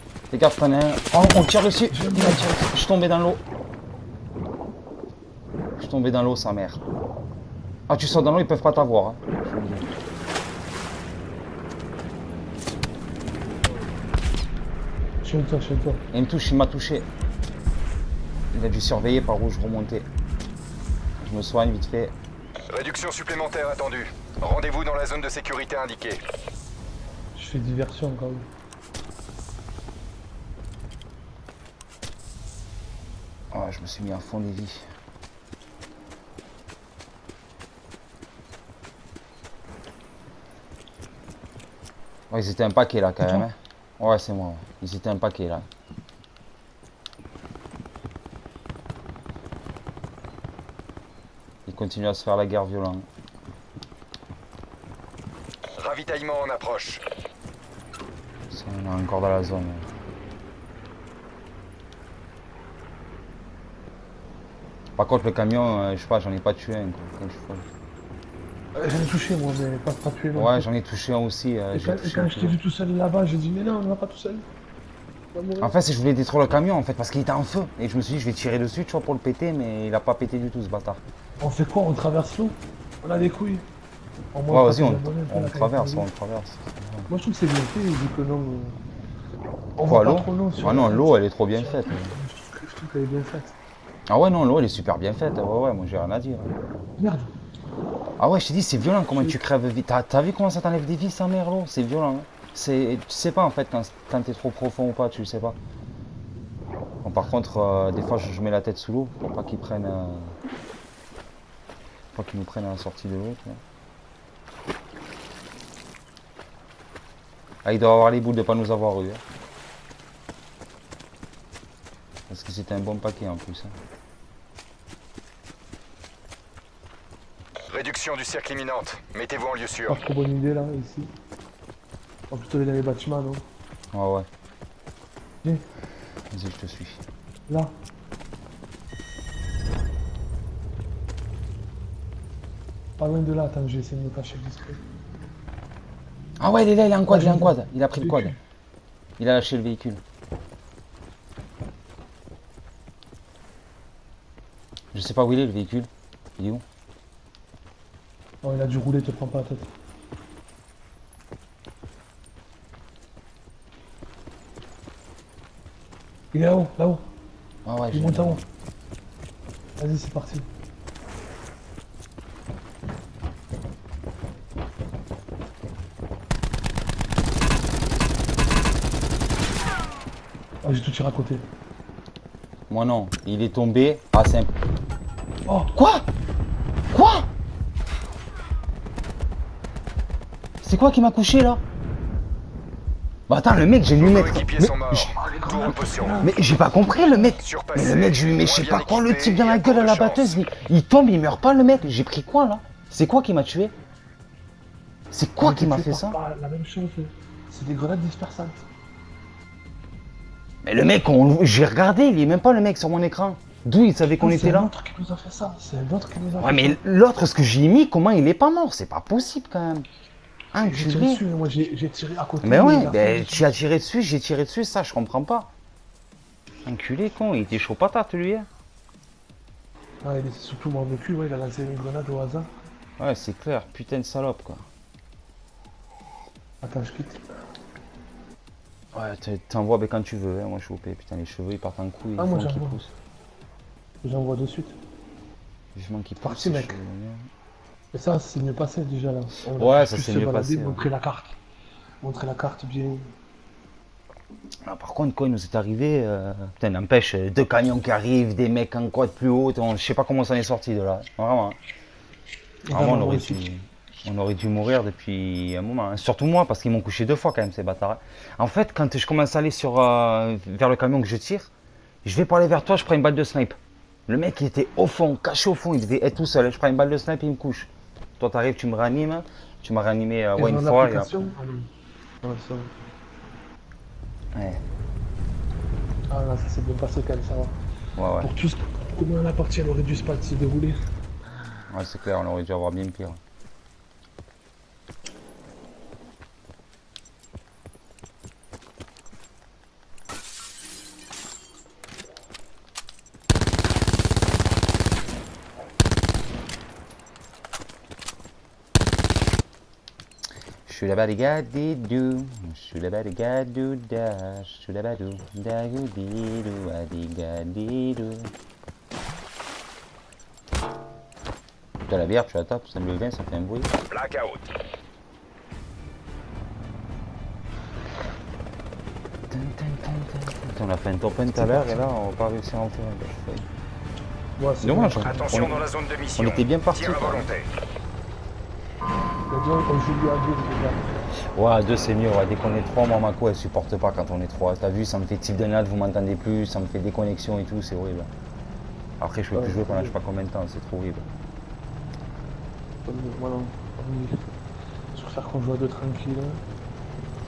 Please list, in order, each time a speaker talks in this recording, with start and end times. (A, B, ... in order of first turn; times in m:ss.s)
0:00.3-0:03.4 A
0:01.9-0:02.5 B
0:05.8-0:06.8 A
0:07.9-0:09.9 A
0:15.2-0:16.0 B
0:16.1-0:17.1 A
0:18.5-0:20.1 A
0:21.2-0:22.2 A
0:22.7-0:26.2 C
0:27.4-0:28.5 B
0:33.5-0:34.8 A
0:42.3-0:45.7 A
0:51.7-0:53.1 A
0:55.8-0:57.0 C
0:58.5-0:59.9 A
1:05.0-1:07.7 A
1:08.8-1:10.7 B
1:10.4-1:12.6 A
1:11.7-1:14.5 B
1:15.3-1:15.7 B
1:15.6-1:21.0 A
1:21.4-1:23.7 B
1:24.3-1:26.1 B
1:24.5-1:27.1 A
1:27.1-1:28.8 B
1:29.8-1:33.6 B
1:29.8-1:32.2 A
1:34.1-1:36.5 A
1:37.0-1:37.3 B
1:38.2-1:45.6 A
1:47.0-1:50.4 A
1:52.1-1:53.6 A
1:57.6-1:59.2 A
2:02.3-2:03.8 A
2:07.7-2:10.0 C
2:09.9-2:11.1 B
2:12.3-2:13.5 B
2:13.9-2:14.3 A
2:16.3-2:17.0 A
2:17.5-2:17.7 B
2:23.0-2:24.8 B
2:26.4-2:28.4 A
2:27.1-2:28.4 B
2:29.2-2:30.0 A
2:34.9-2:36.6 A
2:38.4-2:39.7 B
2:46.3-2:47.1 B
2:47.7-2:48.4 A
2:47.9-2:48.4 B
2:49.8-2:50.5 B
3:00.6-3:01.4 B
3:02.7-3:04.5 A
3:05.5-3:05.7 B
3:05.7-3:06.1 A
3:06.9-3:07.3 A
3:10.6-3:11.6 A
3:13.3-3:15.1 A
3:13.9-3:16.3 C
3:15.1-3:17.3 B
3:16.2-3:23.7 A
3:17.2-3:20.4 C
3:25.1-3:26.2 A
3:25.4-3:28.7 B
3:30.6-3:34.7 A
3:34.2-3:36.8 B
3:36.4-3:39.9 A
3:40.5-3:41.2 A
3:40.6-3:43.5 B
3:42.4-3:45.5 A
3:46.6-3:48.5 A
3:50.0-3:52.5 B
3:53.0-3:54.6 A
3:56.6-3:57.2 B
3:58.9-4:02.9 A
4:02.2-4:02.8 B
4:04.0-4:04.8 B
4:05.8-4:07.3 A
4:06.2-4:06.8 B
4:07.9-4:11.4 B
4:09.6-4:10.8 A
4:12.0-4:13.1 B
4:14.6-4:21.6 A
4:22.6-4:23.4 B
4:22.7-4:31.5 A
4:32.0-4:41.3 A
4:40.4-4:41.7 B
4:42.2-4:42.9 B
4:44.4-4:44.6 A
4:46.1-4:47.6 B
4:48.0-4:48.3 A
4:48.2-4:50.8 B
4:51.7-4:53.2 A
5:10.7-5:18.3 A
5:21.9-5:23.7 A
5:23.9-5:24.5 C
5:29.3-5:33.5 A
5:31.3-5:31.9 B
5:34.4-5:35.5 B
5:34.6-5:35.6 A
5:35.0-5:37.5 C
5:36.2-5:37.3 A
5:39.3-5:40.9 B
5:41.3-5:48.1 A
5:49.0-5:51.1 A
5:49.3-5:50.0 B
5:52.8-5:54.3 B
5:54.9-5:56.4 B